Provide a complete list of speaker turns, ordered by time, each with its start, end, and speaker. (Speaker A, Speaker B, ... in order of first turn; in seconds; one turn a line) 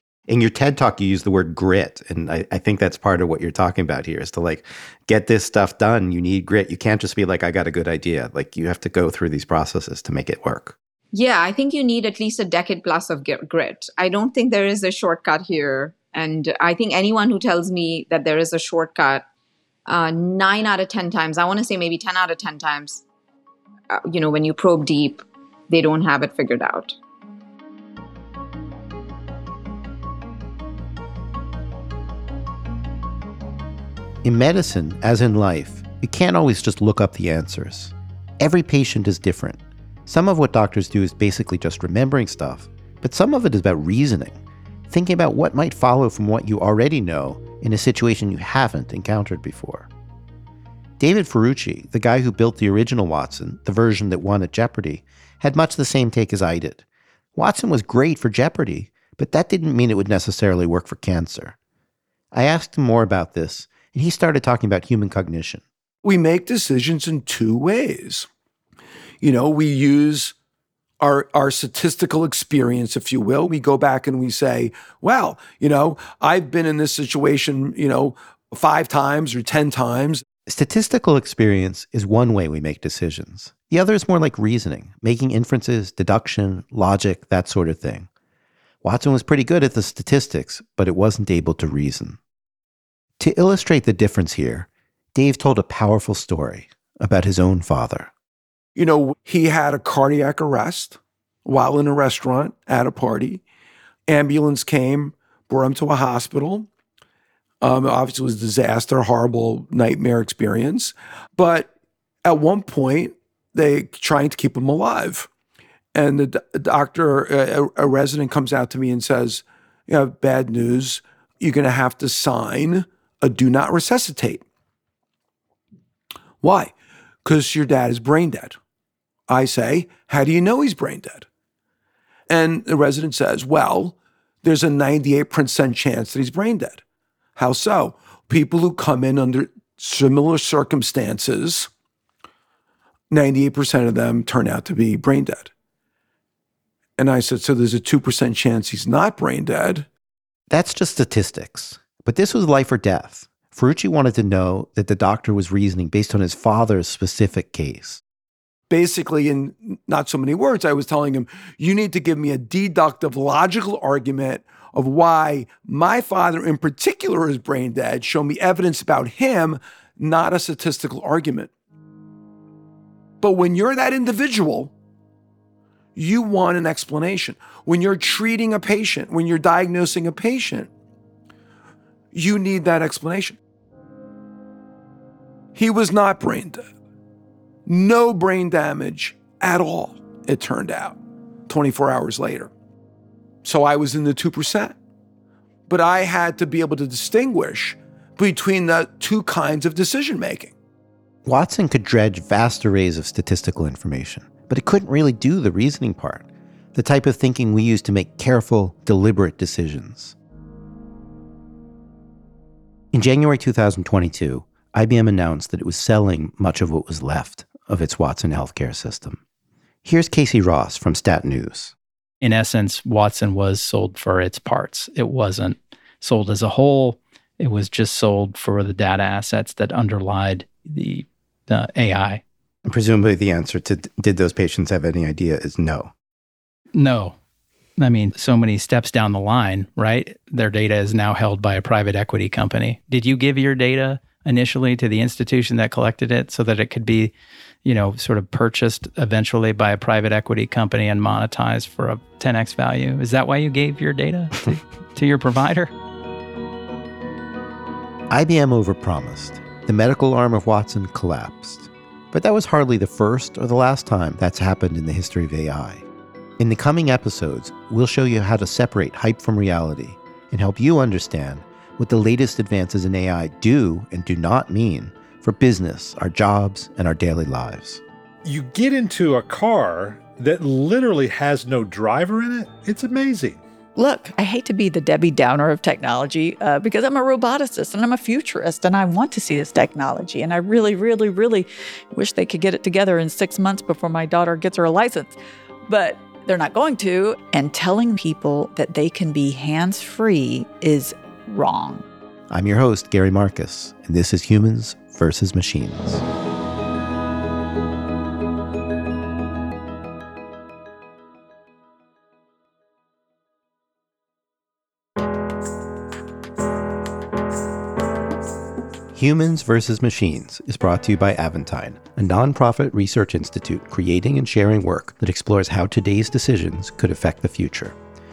Speaker A: 0.3-10.8
Speaker B: 11.1-19.2
Speaker B: 19.9-23.0
Speaker B: 23.9-27.0
Speaker A: 34.2-44.4
Speaker A: 44.9-49.9
Speaker A: 51.0-56.8
Speaker A: 57.4-61.6
Speaker A: 62.3-65.6
Speaker C: 66.0-68.3
Speaker C: 69.2-70.3
Speaker C: 71.0-80.2
Speaker A: 80.5-88.1
Speaker A: 88.8-92.2
Speaker A: 93.2-98.1
Speaker C: 98.8-103.4
Speaker C: 104.1-106.7
Speaker C: 107.6-111.7
Speaker C: 112.2-115.3
Speaker C: 115.9-124.4
Speaker C: 126.4-126.7
Speaker C: 127.2-128.6
Speaker C: 129.3-131.3
Speaker C: 132.3-136.8
Speaker C: 137.4-141.7
Speaker C: 143.1-145.5
Speaker C: 147.0-149.9
Speaker A: 150.5-158.0
Speaker C: 158.7-171.5
Speaker C: 173.2-174.7
Speaker C: 176.0-180.7
Speaker C: 182.1-183.4
Speaker C: 185.6-186.6
Speaker C: 187.7-192.5
Speaker C: 193.4-194.8
Speaker C: 195.7-200.6
Speaker A: 201.2-210.2
Speaker A: 212.9-219.2
Speaker A: 219.8-221.8
Speaker D: 222.2-232.2
Speaker A: 232.6-235.9
Speaker D: 236.8-237.2
Speaker D: 237.8-247.1
Speaker D: 247.7-255.7
Speaker A: 258.1-265.9
Speaker A: 266.4-277.8
Speaker E: 278.2-283.4
Speaker F: 283.8-301.9
Speaker A: 302.3-306.0
Speaker A: 318.9-327.8